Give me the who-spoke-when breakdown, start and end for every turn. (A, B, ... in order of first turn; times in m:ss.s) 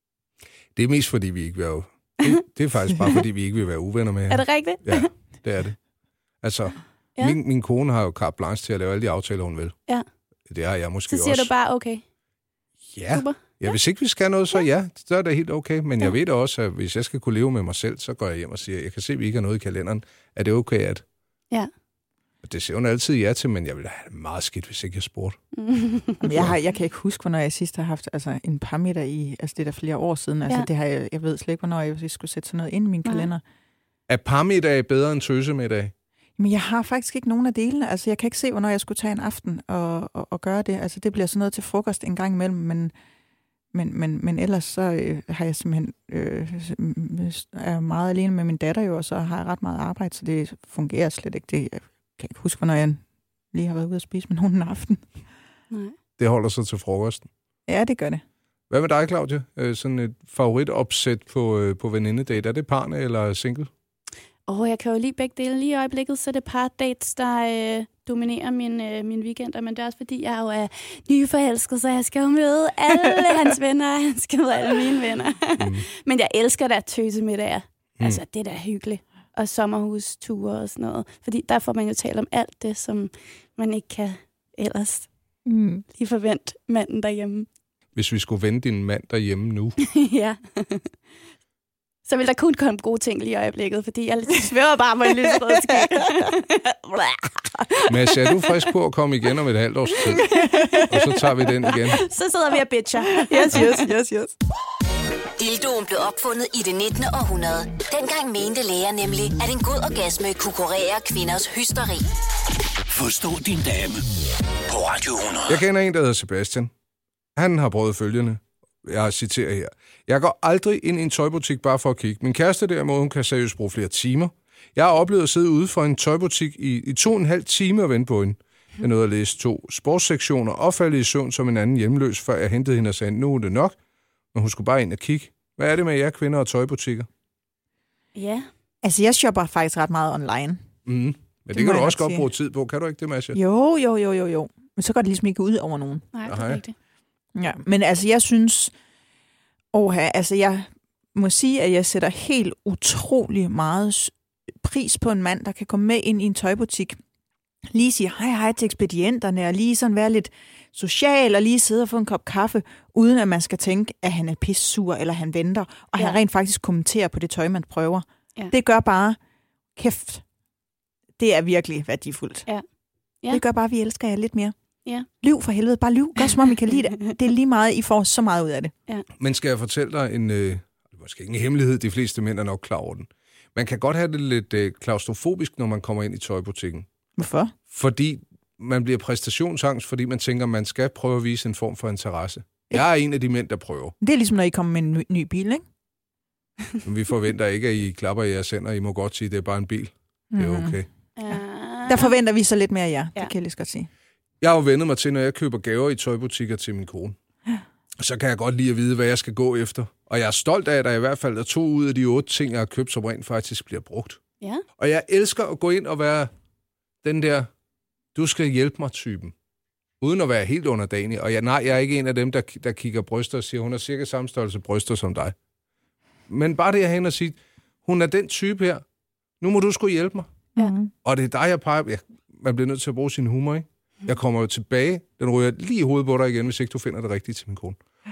0:00.8-0:05.8 A
0:04.3-0:05.1 B
0:06.4-0:09.8 A
0:10.5-0:11.5 A
0:11.1-0:12.0 B
0:12.9-0:21.0 A
0:13.1-0:13.7 B
0:22.4-0:25.4 A
0:25.6-0:26.3 B
0:26.2-0:33.4 C
0:34.1-0:35.9 A
0:36.4-0:42.9 C
0:43.7-0:55.0 C
0:56.2-0:57.3 A
0:57.7-0:58.2 C
0:58.7-1:03.7 A
1:04.5-1:25.1 B
1:15.6-1:15.8 A
1:25.5-1:25.8 C
1:26.0-1:27.5 B
1:28.0-1:29.8 A
1:29.8-1:30.9 B
1:32.1-1:38.6 B
1:35.2-1:36.3 C
1:37.9-1:40.3 A
1:40.1-1:43.9 B
1:40.1-1:41.1 C
1:40.9-1:42.0 A
1:43.0-1:44.3 C
1:45.4-1:52.1 D
1:52.9-1:54.1 E
1:54.7-1:55.6 E
1:55.5-1:56.7 A
1:57.4-2:13.8 A
2:14.3-2:17.1 A
2:18.2-2:18.5 B
2:18.8-2:20.6 C
2:20.9-2:23.4 A
2:21.5-2:22.3 C
2:23.3-2:26.1 C
2:26.1-2:26.7 B
2:26.3-2:26.6 A
2:27.4-2:28.7 C
2:29.7-2:37.0 C
2:37.7-2:49.2 C
2:49.8-2:50.2 C
2:51.2-2:52.5 C
2:53.3-2:54.5 C
2:55.2-2:58.7 C
2:59.2-3:06.9 A
3:07.2-3:07.6 C
3:07.7-3:13.9 A
3:14.0-3:15.6 C
3:16.8-3:20.9 A
3:20.3-3:20.8 C
3:21.2-3:22.1 B
3:21.9-3:23.9 C
3:24.4-3:27.2 A
3:28.0-3:34.2 A
3:34.8-3:36.3 A
3:37.0-3:37.5 A
3:38.2-3:39.3 A
3:40.0-3:45.4 A
3:46.3-3:48.8 A
3:49.4-3:50.3 A
3:50.6-3:50.9 C
3:51.0-3:57.8 A